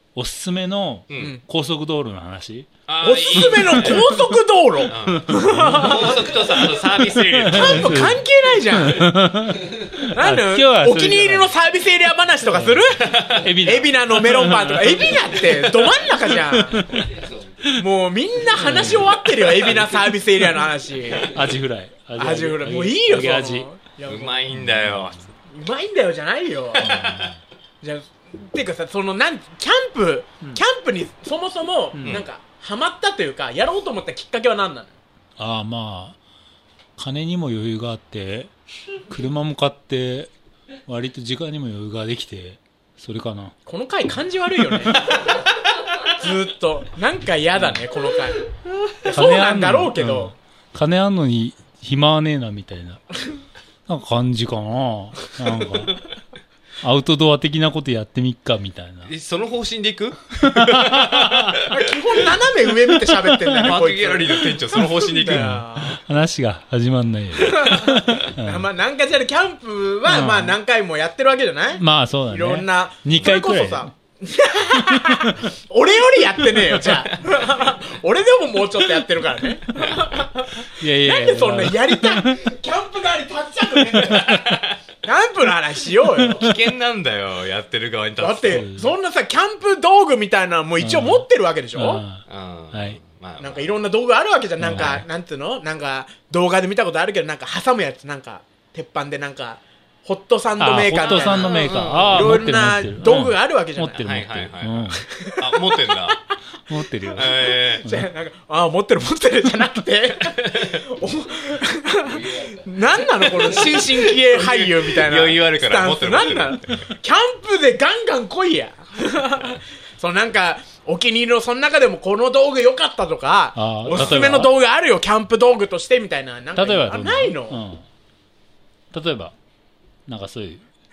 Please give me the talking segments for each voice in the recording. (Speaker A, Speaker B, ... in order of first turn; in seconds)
Speaker A: 0.1-2.7, 3.4-4.2, 4.8-6.2, 7.1-11.5, 12.4-17.9, 18.5-20.6, 21.1-23.7, 24.5-25.3, 26.8-27.4, 31.9-32.2, 35.4-36.2, 37.0-38.5, 39.1-40.3, 40.9-43.6, 49.1-53.0, 53.9-56.0, 56.8-59.1, 60.4-61.5, 63.2-63.8, 65.2-68.7, 70.1-70.6, 71.8-73.9, 74.8-75.5, 80.8-82.5, 84.1-84.6, 88.5-89.0, 90.8-93.0, 94.6-95.1, 100.6-105.0, 106.7-107.3, 107.8-108.1, 123.5-124.5, 126.5-127.8, 128.9-129.3, 130.1-130.6
Speaker B: 1.1-1.4, 2.9-4.2, 4.9-8.2, 13.0-13.5, 24.1-25.3, 26.8-27.1, 32.0-32.3, 59.0-61.8, 63.6-65.5, 86.2-88.7, 92.3-93.8, 101.0-102.3, 103.9-106.2, 107.2-107.9, 113.4-116.9, 123.9-124.3
Speaker C: 1.2-1.4, 3.0-6.2, 7.5-9.1, 10.1-16.9, 17.7-21.4, 22.2-24.5, 25.5-26.9, 27.8-35.0, 43.7-45.1, 46.2-50.3, 61.7-66.0, 67.3-84.4, 85.0-86.5, 88.2-92.0, 93.4-104.0, 104.9-106.2, 107.1-127.6